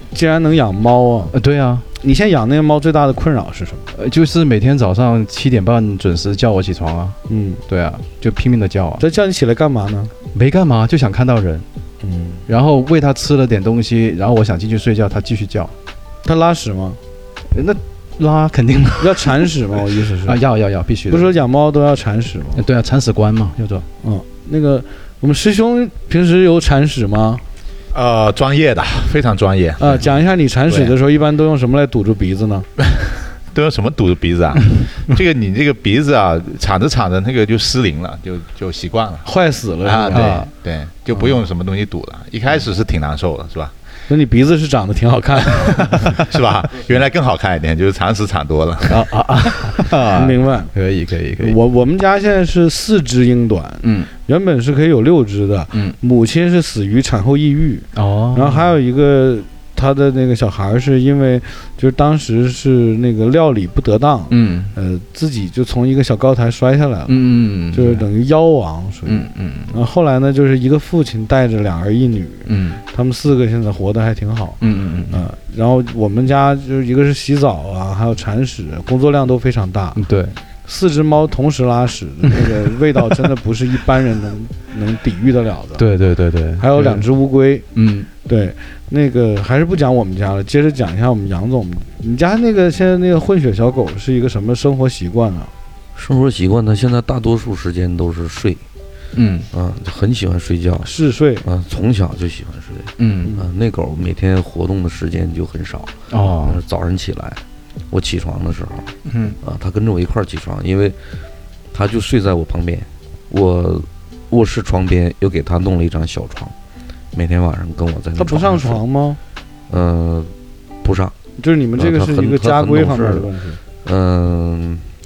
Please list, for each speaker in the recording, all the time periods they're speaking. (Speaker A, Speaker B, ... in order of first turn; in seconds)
Speaker A: 0.1-1.4, 2.0-3.9, 7.3-7.6, 9.0-10.1, 12.0-12.4, 16.2-17.0, 19.0-20.4, 21.1-22.6, 23.6-27.4, 29.8-32.7, 39.2-40.5, 44.1-46.3, 50.0-50.7, 51.4-80.0, 80.7-85.9, 86.6-87.7, 88.2-95.5, 100.8-101.5, 118.2-119.2, 121.4-123.6
Speaker B: 1.3-1.8, 3.9-9.0, 10.3-11.7, 12.5-15.7, 17.5-19.5, 20.2-21.3, 22.6-23.6, 40.1-40.5, 48.9-51.6, 53.8-54.1, 57.9-58.7, 64.3-64.7, 67.1-68.1, 69.1-69.8, 72.5-72.8, 74.6-75.2, 80.0-80.4, 85.8-87.0, 87.7-88.1, 99.2-99.5, 103.0-103.4, 106.1-106.6, 109.1-109.4
Speaker C: 27.9-30.1, 33.5-39.3, 39.8-43.7, 46.1-49.1
Speaker D: 96.0-98.6, 99.5-100.9, 101.4-108.9, 109.4-111.0, 111.7-116.5, 117.1-118.8, 119.7-120.3, 120.8-121.2, 121.8-123.3, 123.8-124.9